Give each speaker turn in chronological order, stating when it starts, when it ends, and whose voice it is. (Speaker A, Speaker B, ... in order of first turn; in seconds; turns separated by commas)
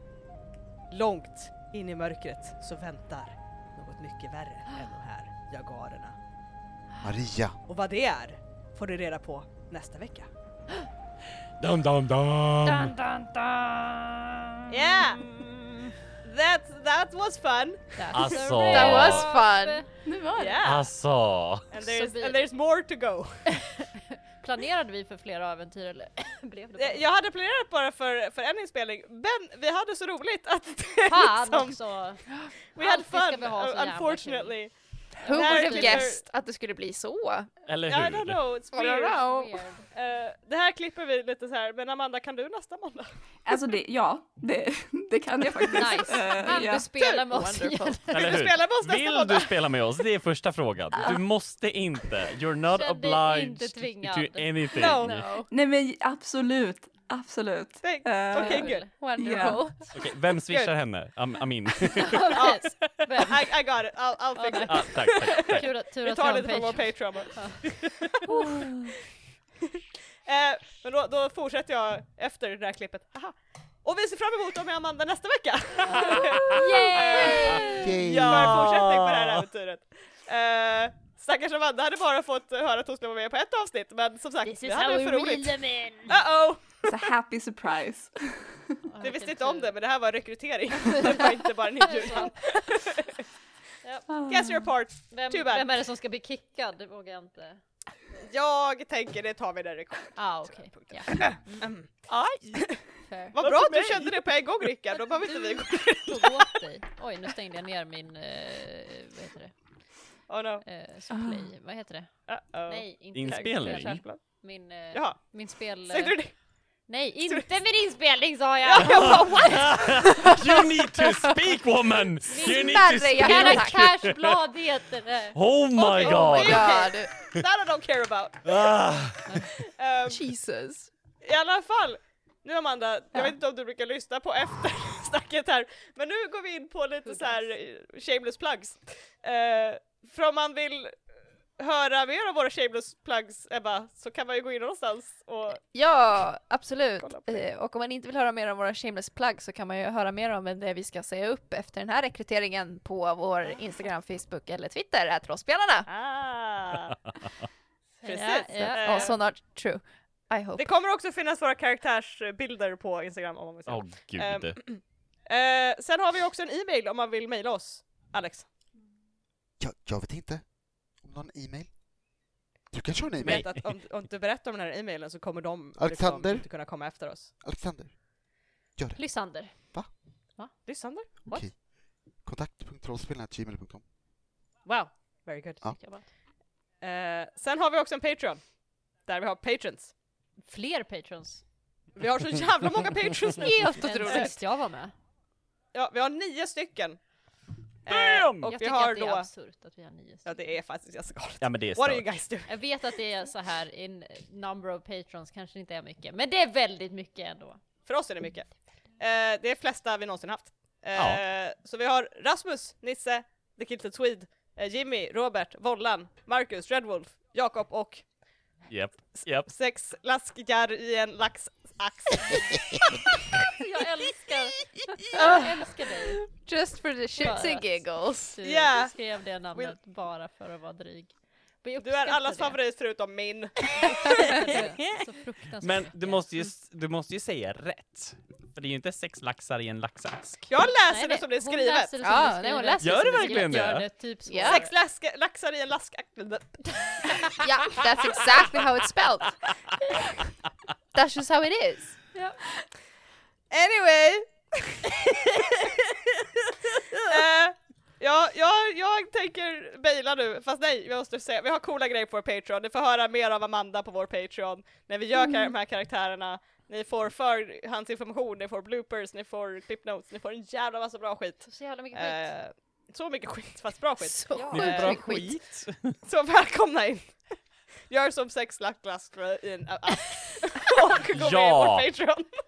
Speaker A: 0.9-6.2, Speaker B: 7.0-7.6, Speaker A: 7.7-10.3, Speaker C: 11.6-13.0, Speaker D: 12.6-13.4, Speaker A: 14.7-15.2, Speaker D: 15.2-15.5, Speaker A: 16.2-18.4, Speaker D: 18.0-19.9, Speaker C: 18.1-19.3, Speaker E: 18.7-19.9, Speaker F: 20.1-20.6, Speaker A: 20.4-20.9, Speaker C: 20.6-21.7, Speaker A: 21.7-23.5, Speaker D: 21.8-22.5, Speaker D: 23.5-27.1, Speaker A: 26.8-31.9, Speaker D: 31.1-34.6, Speaker A: 32.8-34.7, Speaker E: 35.2-37.5, Speaker A: 35.2-36.2, Speaker D: 35.3-36.1, Speaker C: 37.7-38.5, Speaker A: 37.9-39.2, Speaker E: 38.7-39.6, Speaker D: 39.2-39.8, Speaker A: 39.9-43.1, Speaker F: 43.5-46.9, Speaker D: 45.7-48.4, Speaker E: 47.3-48.1, Speaker C: 48.1-55.3, Speaker A: 48.1-49.9, Speaker D: 52.7-55.1, Speaker A: 54.8-55.1, Speaker E: 55.0-55.5, Speaker F: 55.5-59.6, Speaker A: 57.8-58.9, Speaker D: 58.3-58.9, Speaker E: 58.8-59.9, Speaker C: 59.9-62.4, Speaker A: 60.5-60.7, Speaker A: 61.9-68.3, Speaker D: 62.0-63.5, Speaker D: 64.4-67.7, Speaker C: 64.7-65.7, Speaker A: 69.8-87.1, Speaker D: 75.9-77.9, Speaker B: 77.8-78.6, Speaker C: 78.0-79.5, Speaker D: 84.4-86.2, Speaker F: 86.9-88.6, Speaker D: 88.9-89.7, Speaker A: 89.0-93.2, Speaker D: 91.8-92.8, Speaker D: 93.8-94.1, Speaker F: 94.1-94.7, Speaker A: 94.3-95.7, Speaker D: 95.1-97.6, Speaker A: 98.2-106.6, Speaker D: 100.2-101.7, Speaker D: 103.1-103.9, Speaker C: 103.4-104.0, Speaker D: 105.2-109.5, Speaker A: 110.3-110.6, Speaker D: 110.6-112.1, Speaker F: 111.1-111.5, Speaker A: 112.3-114.4, Speaker D: 112.7-116.2, Speaker C: 113.1-114.0, Speaker A: 114.9-116.3, Speaker D: 116.9-119.6, Speaker A: 117.3-117.6, Speaker A: 118.7-120.3, Speaker C: 119.3-124.2, Speaker D: 122.3-125.4, Speaker E: 122.4-123.9, Speaker C: 125.3-126.7, Speaker A: 125.8-128.7, Speaker D: 126.0-126.2, Speaker E: 126.1-127.1, Speaker C: 128.5-129.2, Speaker A: 129.6-130.2, Speaker E: 130.1-130.9, Speaker A: 131.2-141.0, Speaker A: 141.6-145.6, Speaker E: 145.6-155.9, Speaker A: 147.0-147.5, Speaker A: 155.9-157.0, Speaker D: 158.0-159.2, Speaker A: 158.0-159.2, Speaker E: 158.8-160.7, Speaker A: 160.6-168.5, Speaker C: 163.7-164.6, Speaker B: 169.6-171.8, Speaker B: 172.7-173.5, Speaker A: 173.2-177.3, Speaker C: 173.2-173.6, Speaker B: 175.8-176.5, Speaker B: 177.4-178.1, Speaker B: 178.8-179.9, Speaker D: 178.9-179.8, Speaker A: 180.7-181.5, Speaker B: 181.3-181.7, Speaker B: 182.2-183.8, Speaker A: 184.7-185.7, Speaker D: 185.8-186.1, Speaker A: 186.8-188.4, Speaker A: 188.9-189.9, Speaker D: 190.5-191.4, Speaker A: 192.0-194.3, Speaker E: 193.4-194.4, Speaker D: 193.8-194.9, Speaker A: 195.7-197.0, Speaker A: 197.9-199.3, Speaker C: 198.1-198.5, Speaker D: 198.4-200.4, Speaker A: 200.2-202.6, Speaker C: 201.4-202.2, Speaker D: 202.5-207.6, Speaker A: 207.9-218.1, Speaker C: 211.0-211.2, Speaker C: 218.7-219.5, Speaker A: 219.1-223.2, Speaker D: 223.6-226.2, Speaker E: 225.2-225.8, Speaker E: 226.3-228.4, Speaker D: 227.2-232.6, Speaker A: 228.4-229.8, Speaker A: 231.8-234.6, Speaker D: 234.0-236.3, Speaker C: 234.6-235.1, Speaker C: 235.6-240.5, Speaker A: 240.5-241.9, Speaker D: 240.9-244.7, Speaker E: 242.0-243.6, Speaker C: 242.8-243.9, Speaker E: 244.3-244.6, Speaker A: 244.4-248.4, Speaker E: 247.4-249.4, Speaker E: 250.9-252.0, Speaker A: 253.5-254.9, Speaker A: 257.0-275.0, Speaker D: 271.5-272.3, Speaker E: 274.0-275.4, Speaker D: 274.3-274.6, Speaker C: 274.5-276.0, Speaker A: 276.1-277.3, Speaker A: 277.9-282.3, Speaker C: 281.1-281.9